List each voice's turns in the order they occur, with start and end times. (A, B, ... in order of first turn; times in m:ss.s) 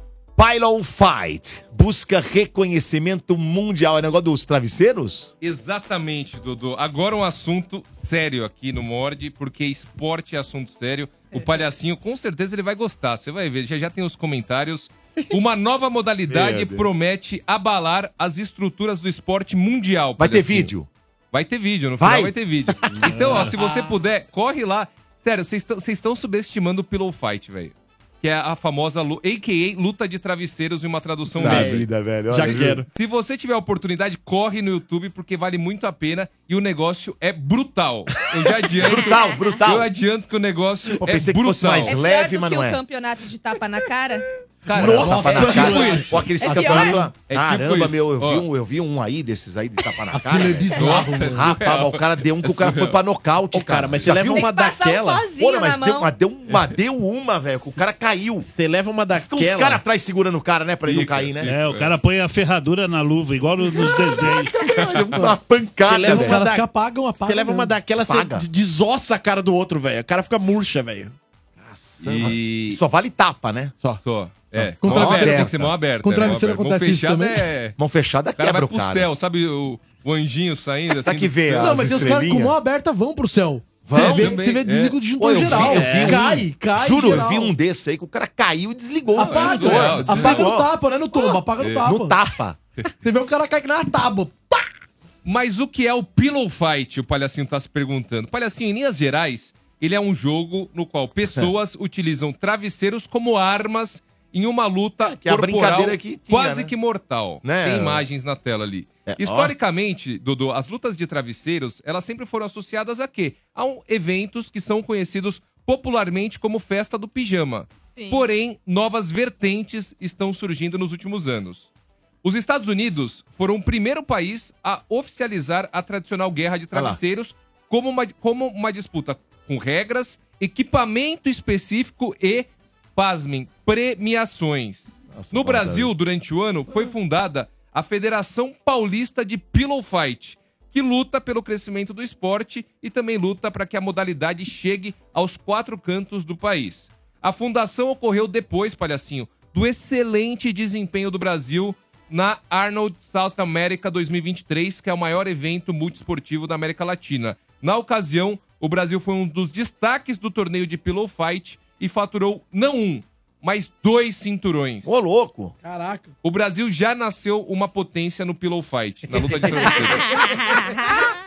0:00.4-0:05.3 A
0:05.4-0:20.7 B
0:16.3-0:16.9 A
0:20.2-0:20.9 A
0:21.3-0:31.9 B
0:22.0-0:22.3 A
0:22.9-0:23.4 A
0:23.1-0:23.6 C
0:31.4-0:32.8 A
0:31.4-0:32.9 D
0:32.5-0:42.0 B
0:38.8-0:39.9 A
0:41.0-0:42.8 A
0:41.9-0:44.3 E
0:44.7-0:46.4 B
0:44.7-0:54.5 A
0:44.7-0:47.1 F
0:45.5-0:47.1 E
0:47.2-0:48.4 B
0:50.2-0:51.5 F
0:50.8-0:53.0 B
0:53.5-0:55.3 D
0:54.2-0:56.1 E
0:55.4-0:58.5 A
0:58.4-0:59.8 D
0:59.1-1:01.5 A
1:00.9-1:02.0 B
1:00.9-1:04.6 C
1:04.5-1:06.7 D
1:04.7-1:05.1 B
1:05.1-1:06.4 A
1:06.0-1:07.7 F
1:07.2-1:11.2 D
1:08.0-1:08.5 A
1:11.6-1:13.8 A
1:12.0-1:12.8 B
1:14.0-1:17.8 B
1:14.6-1:15.7 A
1:14.8-1:15.5 F
1:16.0-1:17.4 F
1:17.8-1:19.1 A
1:18.4-1:21.7 B
1:21.0-1:22.6 A
1:21.5-1:27.5 F
1:23.9-1:24.4 A
1:23.9-1:25.0 B
1:25.2-1:32.6 A
1:25.5-1:26.4 D
1:29.2-1:32.2 F
1:29.2-1:30.5 B
1:31.6-1:31.9 B
1:33.0-1:34.6 F
1:35.2-2:01.7 B
1:45.0-1:46.7 A
1:47.4-1:48.0 A
1:49.1-1:49.5 A
1:58.0-1:58.3 E
2:02.2-2:44.9 B
2:06.7-2:07.0 A
2:15.1-2:15.9 A
2:44.8-2:45.6 A
2:45.6-2:46.1 F
2:46.2-2:50.0 B
2:50.1-2:51.1 E